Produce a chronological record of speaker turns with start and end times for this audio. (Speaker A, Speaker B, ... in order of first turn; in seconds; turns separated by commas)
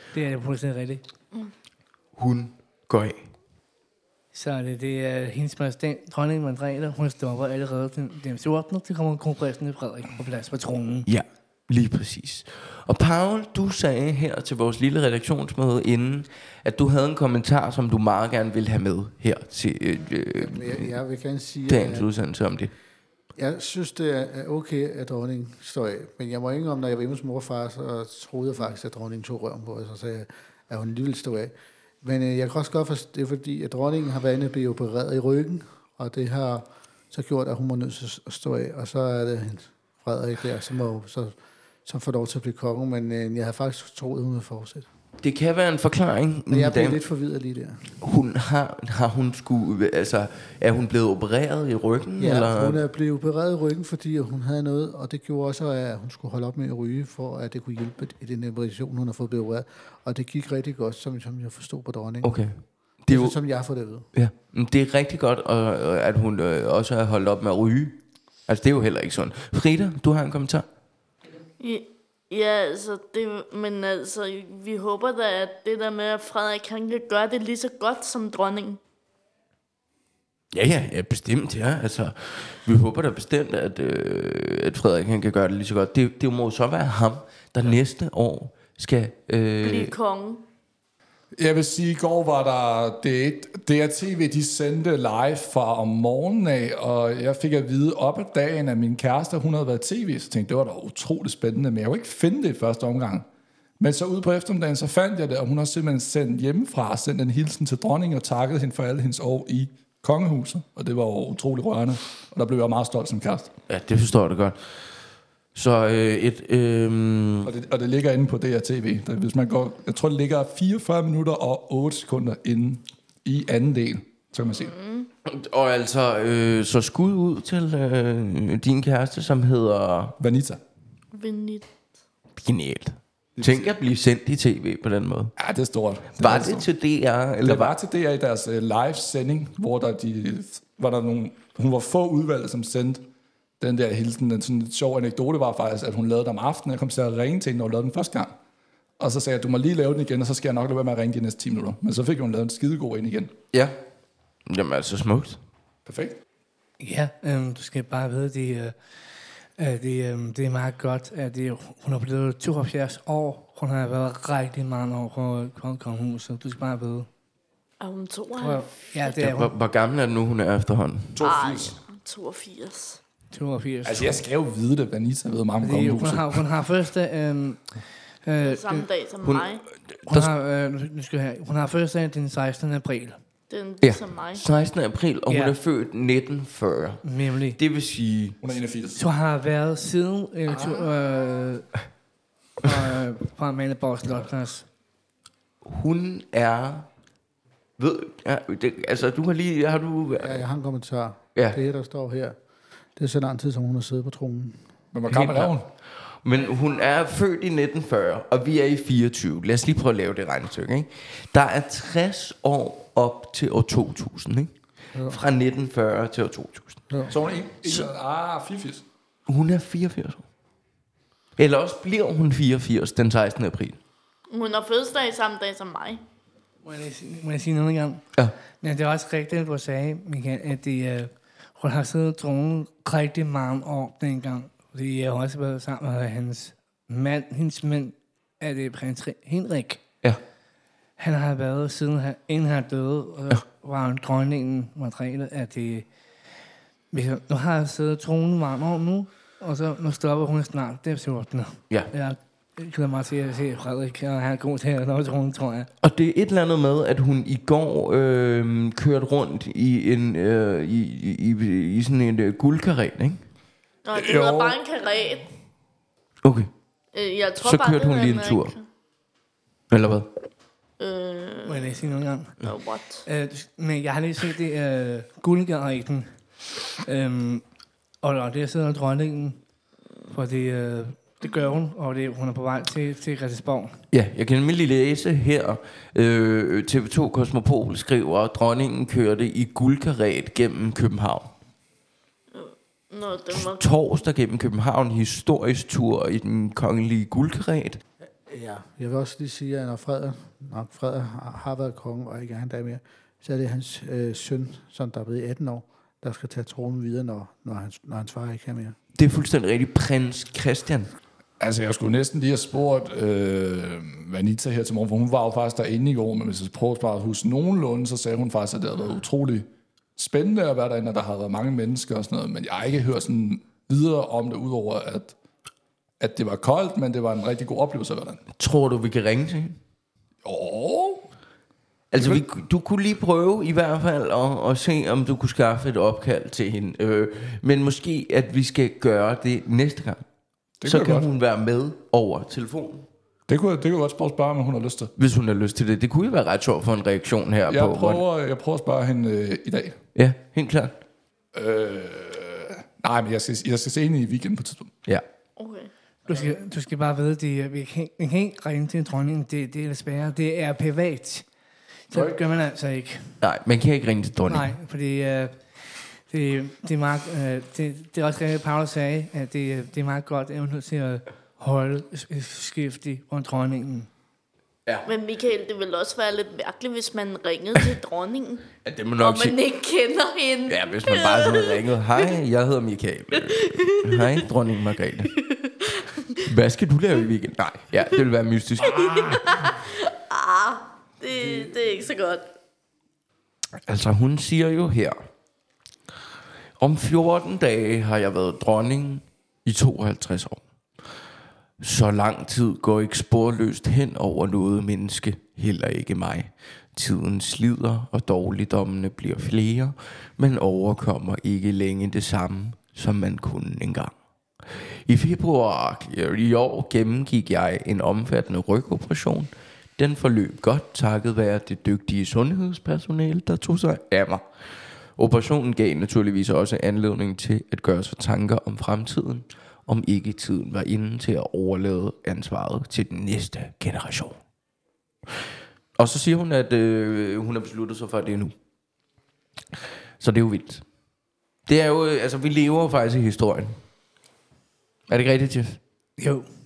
Speaker A: 0.1-1.0, Speaker B: 2.1-3.2, Speaker A: 4.3-11.1, Speaker B: 11.1-20.9, Speaker C: 20.3-22.1, Speaker B: 21.7-22.7, Speaker C: 23.4-44.9, Speaker B: 45.2-47.0, Speaker C: 46.5-47.9, Speaker B: 48.0-52.8, Speaker C: 52.2-62.4, Speaker B: 62.2-63.4, Speaker C: 63.1-64.1, Speaker B: 64.1-70.6, Speaker D: 71.6-78.8, Speaker B: 80.5-89.9, Speaker D: 89.6-90.4, Speaker E: 91.3-103.3, Speaker E: 103.8-113.5, Speaker B: 113.7-114.6, Speaker B: 115.5-117.5, Speaker E: 117.4-124.7, Speaker D: 124.5-125.1, Speaker B: 125.2-130.2, Speaker E: 130.2-130.6, Speaker D: 131.1-131.7, Speaker B: 132.3-135.3, Speaker E: 133.4-133.8, Speaker E: 135.4-136.7, Speaker B: 136.2-137.7, Speaker E: 137.4-143.1, Speaker E: 143.6-148.3, Speaker E: 149.0-153.3, Speaker B: 154.5-155.4, Speaker E: 155.8-156.2, Speaker A: 156.8-158.8, Speaker A: 159.6-167.1, Speaker D: 167.8-169.1, Speaker A: 168.4-169.5, Speaker B: 169.1-171.2, Speaker E: 171.2-171.8, Speaker D: 171.2-173.0, Speaker A: 173.3-174.2, Speaker E: 173.8-176.4, Speaker A: 175.6-177.7, Speaker A: 178.2-178.9, Speaker D: 178.4-179.7, Speaker B: 179.2-180.3, Speaker A: 180.1-183.2, Speaker D: 183.5-184.5, Speaker B: 183.8-187.0, Speaker A: 185.3-185.6, Speaker A: 187.0-187.6, Speaker B: 187.6-188.4, Speaker E: 188.4-189.0, Speaker A: 188.9-191.7, Speaker A: 192.6-194.7, Speaker B: 195.6-196.9, Speaker B: 197.8-200.5, Speaker C: 200.2-202.4, Speaker C: 203.0-204.7, Speaker E: 204.9-205.7, Speaker B: 205.1-205.5, Speaker B: 206.2-214.5, Speaker B: 215.1-216.8, Speaker C: 216.9-217.2, Speaker E: 217.1-218.8, Speaker B: 219.3-220.2, Speaker B: 221.4-223.8, Speaker D: 224.3-226.0, Speaker A: 226.6-228.0, Speaker A: 228.6-239.8, Speaker A: 241.0-245.9, Speaker A: 246.9-255.7, Speaker B: 255.8-263.2, Speaker D: 263.8-265.3, Speaker E: 263.9-264.6, Speaker B: 266.2-266.5, Speaker D: 266.9-268.7, Speaker B: 267.4-268.5, Speaker B: 269.7-270.1, Speaker D: 270.8-271.9, Speaker A: 271.4-272.4, Speaker D: 272.4-273.1, Speaker A: 273.1-276.2, Speaker A: 276.8-277.4, Speaker A: 278.0-279.4, Speaker A: 280.1-283.8, Speaker B: 283.9-291.3, Speaker D: 292.3-293.7, Speaker B: 293.3-297.8, Speaker C: 298.3-308.8, Speaker B: 308.9-310.9, Speaker E: 311.4-325.1, Speaker E: 326.0-328.2, Speaker B: 328.4-329.6, Speaker E: 330.2-331.1, Speaker B: 331.9-340.0, Speaker E: 331.9-332.2, Speaker E: 340.6-341.1, Speaker B: 340.6-342.9, Speaker E: 343.3-344.9, Speaker B: 345.0-348.0, Speaker E: 347.5-349.8, Speaker B: 349.9-350.8, Speaker E: 351.3-354.7, Speaker D: 355.4-355.7, Speaker A: 356.0-361.2, Speaker A: 361.9-363.2, Speaker E: 361.9-362.2, Speaker B: 363.2-364.6, Speaker A: 364.3-373.9, Speaker D: 374.8-382.2, Speaker B: 378.6-379.4, Speaker B: 380.5-385.1, Speaker D: 383.1-384.2, Speaker D: 385.0-386.2, Speaker B: 386.2-389.2, Speaker D: 388.6-392.3, Speaker B: 393.6-395.0, Speaker B: 396.6-400.4, Speaker B: 401.6-413.9, Speaker B: 414.5-424.2, Speaker B: 425.0-434.2, Speaker B: 435.8-438.3, Speaker B: 440.0-440.6, Speaker B: 441.5-443.6, Speaker B: 444.9-445.6, Speaker A: 446.0-446.2